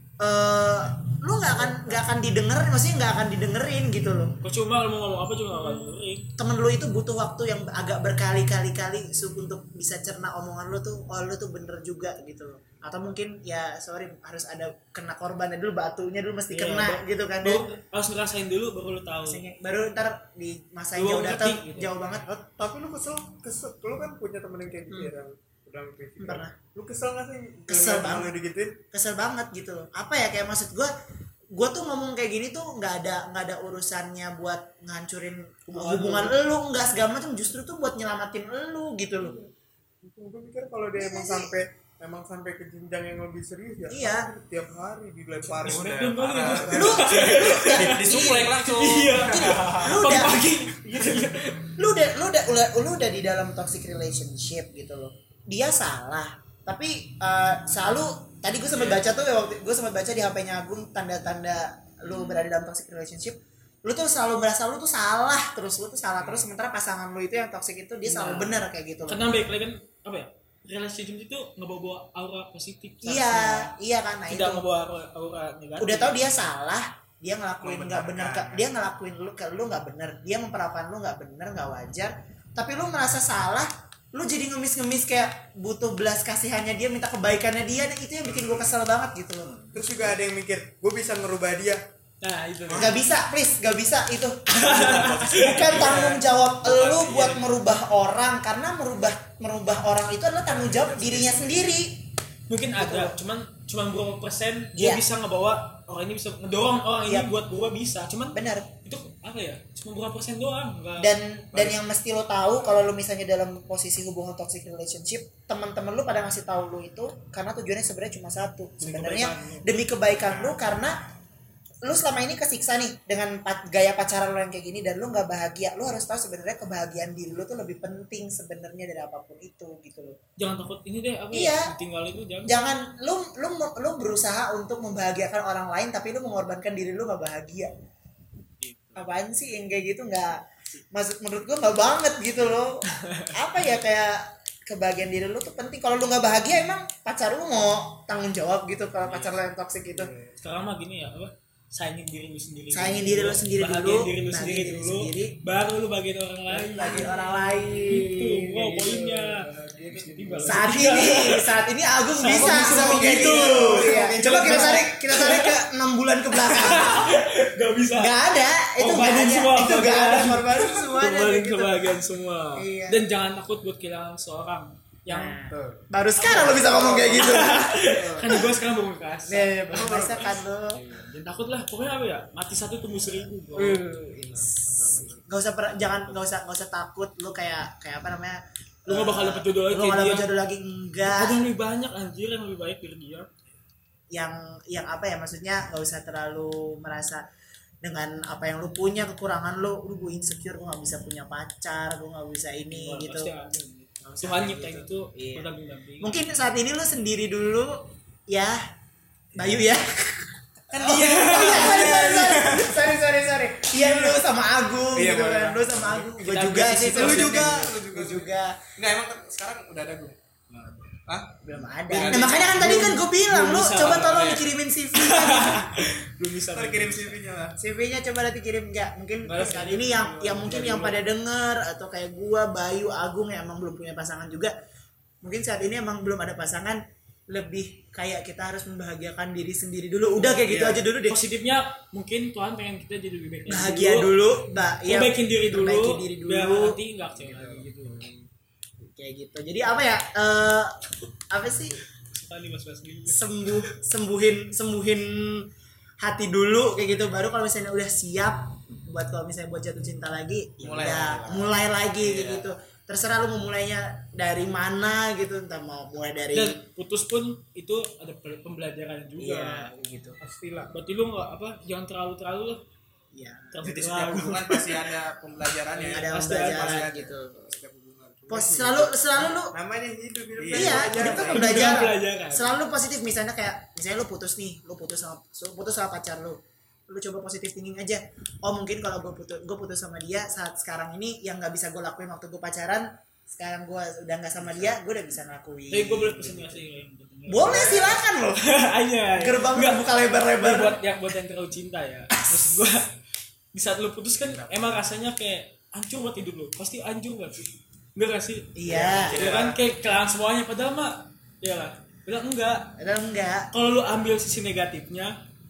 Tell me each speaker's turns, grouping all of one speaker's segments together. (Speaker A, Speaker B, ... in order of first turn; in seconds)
Speaker A: 0.2-4.3, 5.5-17.6, 19.2-22.3, 26.2-26.5, 27.7-28.3, 28.9-30.9, 31.5-39.3, 40.9-41.5, 43.9-44.3, 46.7-48.5, 49.2-50.5, 51.8-69.2, 73.0-74.6, 75.8-89.6, 92.7-102.1, 102.8-103.2, 104.7-105.0, 107.1-107.4, 108.3-108.7, 111.0-120.9, 121.8-130.2, 131.3-131.7, 132.4-137.7, 138.9-140.4, 140.9-150.1, 152.7-155.4, 156.5-159.3, 160.4-167.2, 167.9-171.9, 172.6-173.0, 175.1-178.5, 179.3-180.8, 183.6-191.4, 194.1-197.2, 197.8-203.3, 204.0-205.5, 206.0-208.6, 209.3-218.6, 221.4-225.7, 227.6-234.5, 235.2-241.2, 243.5-246.8, 248.8-250.8, 251.3-251.8, 253.1-255.4, 256.0-266.6, 269.2-270.2, 273.1-273.9, 275.8-277.6, 278.3-279.5, 280.5-296.6, 297.3-298.4, 299.2-300.8, 308.6-309.2, 312.8-313.5
Speaker B: 1.4-2.0, 4.4-6.3, 16.5-19.4, 20.9-21.9, 35.7-36.4, 45.6-51.7, 68.0-73.7, 74.3-76.3, 92.2-93.0, 94.5-95.9, 102.5-111.1, 118.8-119.7, 130.4-132.5, 138.6-139.1, 142.9-143.3, 150.4-161.5, 162.1-165.6, 166.3-168.2, 168.8-175.4, 176.2-183.8, 188.9-190.3, 191.0-193.3, 202.7-206.2, 210.7-212.2, 216.2-217.7, 220.5-220.9, 221.9-224.3, 224.9-227.2, 229.2-230.9, 240.2-244.1, 244.8-248.2, 252.0-253.6, 266.3-269.7, 270.7-272.6, 273.5-274.7, 275.8-276.8, 281.1-282.6, 295.7-302.9, 303.5-312.7, 313.5-315.1
Speaker C: 22.3-28.8, 39.2-39.5, 40.0-45.8, 46.4-47.0, 88.3-88.7, 89.7-91.8, 100.9-101.2, 162.5-164.8, 270.2-270.7, 279.5-281.6, 309.2-309.5
Speaker D: 45.7-50.0, 77.6-78.7, 94.7-97.5, 100.5-101.3, 150.0-150.3, 159.7-160.5, 162.6-164.5, 175.5-175.8, 176.7-177.3, 184.2-185.2, 210.8-212.9, 213.8-214.2, 214.9-216.1, 216.9-220.2, 221.9-222.5, 223.7-224.5, 226.5-227.6, 247.2-247.6, 260.6-262.5, 273.6-278.9, 280.4-281.3, 304.2-304.7, 308.7-309.6